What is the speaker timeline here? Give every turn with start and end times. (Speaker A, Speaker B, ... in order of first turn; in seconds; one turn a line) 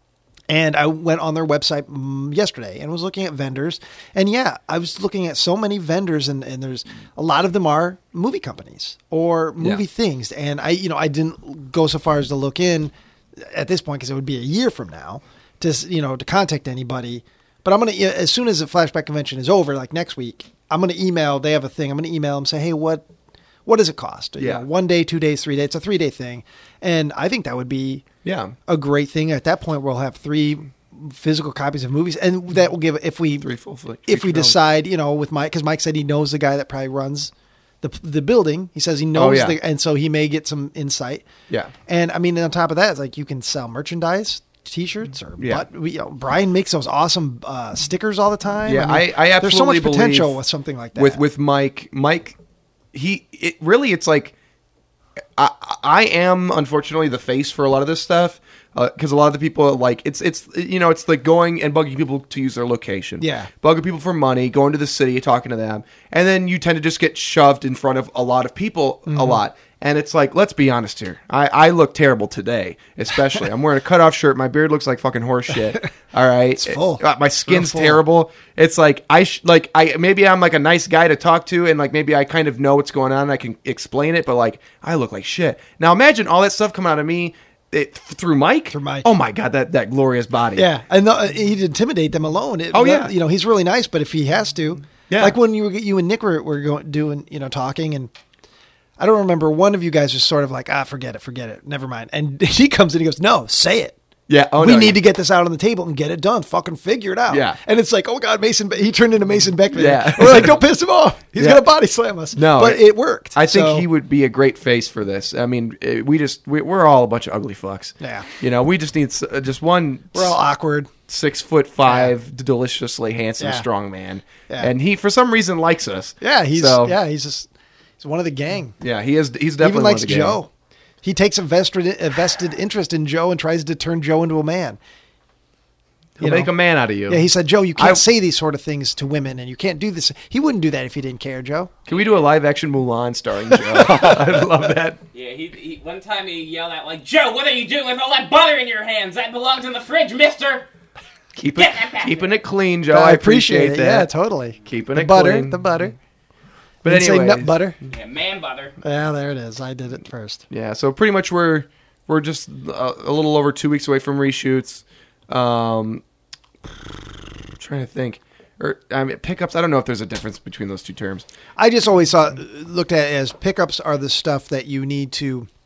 Speaker A: 0.5-23.1
Speaker A: 23.6-28.0
Speaker B: 24.4-24.6
Speaker B: 28.2-28.5
Speaker A: 28.7-33.5
Speaker B: 33.4-34.6
Speaker A: 34.1-37.3
Speaker A: 37.8-41.2
Speaker B: 39.1-39.6
Speaker A: 41.9-51.2
Speaker B: 45.4-45.6
Speaker B: 48.6-50.4
Speaker B: 51.0-52.4
Speaker B: 52.9-54.3
Speaker B: 55.4-90.7
Speaker A: 63.2-63.5
Speaker A: 69.1-69.4
Speaker A: 76.6-78.0
Speaker A: 88.7-89.1
Speaker A: 90.5-98.1
Speaker B: 92.7-93.1
Speaker B: 95.1-95.4
Speaker A: 99.0-104.0
Speaker B: 104.3-105.0
Speaker A: 104.6-113.8
Speaker B: 107.3-107.6
Speaker B: 109.7-110.6
Speaker B: 111.4-111.6
Speaker B: 112.3-120.4
Speaker A: 118.0-118.3
Speaker A: 120.1-120.9
Speaker B: 121.1-127.0
Speaker A: 121.8-122.1
Speaker A: 123.4-123.7
Speaker A: 126.2-127.5
Speaker A: 128.0-128.8
Speaker B: 128.8-130.4
Speaker A: 129.6-130.5
Speaker A: 131.0-134.8
Speaker B: 136.2-137.2
Speaker A: 136.2-136.5
Speaker A: 137.1-141.7
Speaker B: 137.8-138.0
Speaker B: 141.9-145.0
Speaker C: 141.9-142.2
Speaker A: 143.6-144.1
Speaker C: 145.1-150.7
Speaker B: 151.3-154.1
Speaker C: 151.6-152.4
Speaker A: 152.9-155.9
Speaker B: 154.7-155.8
Speaker B: 156.8-157.5
Speaker A: 156.8-157.8
Speaker C: 157.9-158.8
Speaker A: 158.8-160.5
Speaker B: 160.5-166.0
Speaker B: 166.7-171.3
Speaker A: 171.6-175.5